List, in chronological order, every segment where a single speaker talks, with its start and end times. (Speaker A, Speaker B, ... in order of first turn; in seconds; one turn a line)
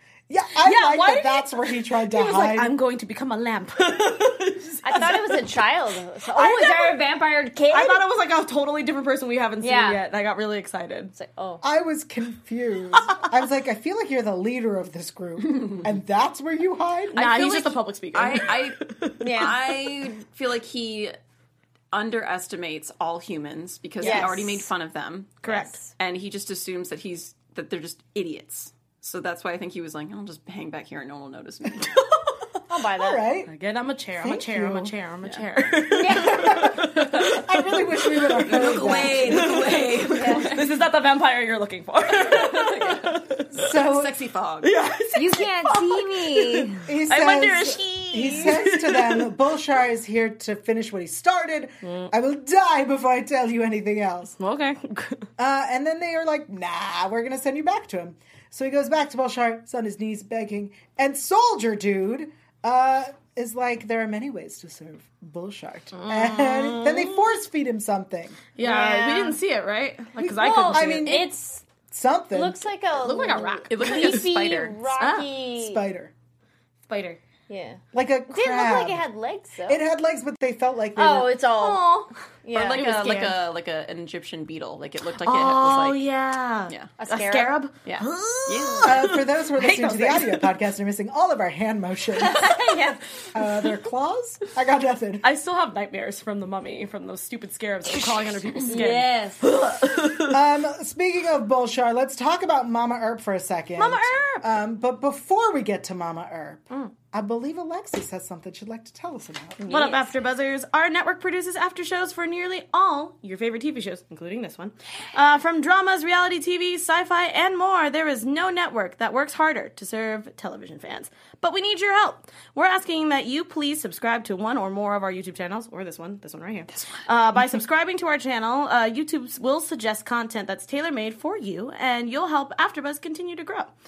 Speaker A: 0.3-2.8
Speaker B: 0.6-5.5
Speaker C: 4.8-8.0
Speaker B: 6.3-7.0
Speaker B: 7.7-11.1
Speaker C: 9.6-10.0
Speaker C: 11.1-11.6
Speaker A: 11.6-17.2
Speaker D: 15.5-15.8
Speaker B: 17.1-19.5
Speaker D: 17.1-21.1
Speaker C: 19.2-19.5
Speaker D: 21.9-32.0
Speaker C: 24.0-24.7
Speaker B: 24.0-24.3
Speaker B: 25.4-25.8
Speaker C: 25.4-25.9
Speaker B: 31.8-32.1
Speaker C: 32.7-33.2
Speaker A: 32.9-33.5
Speaker B: 33.5-43.6
Speaker A: 34.2-34.9
Speaker C: 35.9-36.6
Speaker A: 36.0-39.6
Speaker D: 38.5-40.8
Speaker C: 40.1-40.6
Speaker D: 42.2-43.1
Speaker A: 43.5-44.2
Speaker D: 43.7-44.7
Speaker B: 44.6-49.3
Speaker C: 45.1-46.9
Speaker A: 46.9-54.4
Speaker B: 51.8-52.1
Speaker B: 54.4-55.3
Speaker A: 55.4-68.5
Speaker B: 65.9-67.2
Speaker B: 68.5-71.3
Speaker C: 68.6-69.4
Speaker A: 70.2-71.3
Speaker C: 70.3-71.6
Speaker A: 71.9-72.6
Speaker C: 72.3-75.8
Speaker B: 73.0-74.3
Speaker D: 73.7-74.8
Speaker B: 74.9-75.3
Speaker A: 75.5-76.1
Speaker B: 76.9-77.2
Speaker C: 77.5-77.8
Speaker A: 77.9-79.0
Speaker C: 78.3-79.8
Speaker A: 79.7-81.4
Speaker C: 81.0-81.8
Speaker B: 81.5-82.1
Speaker C: 82.4-83.1
Speaker D: 82.5-86.1
Speaker B: 82.7-83.3
Speaker B: 85.2-90.5
Speaker C: 87.0-87.6
Speaker D: 87.8-89.2
Speaker A: 88.8-92.7
Speaker C: 92.2-93.0
Speaker A: 93.3-95.2
Speaker B: 95.2-100.4
Speaker C: 98.7-99.5
Speaker A: 100.3-109.8
Speaker B: 103.8-104.5
Speaker C: 109.6-110.1
Speaker B: 109.7-133.7
Speaker D: 126.7-127.0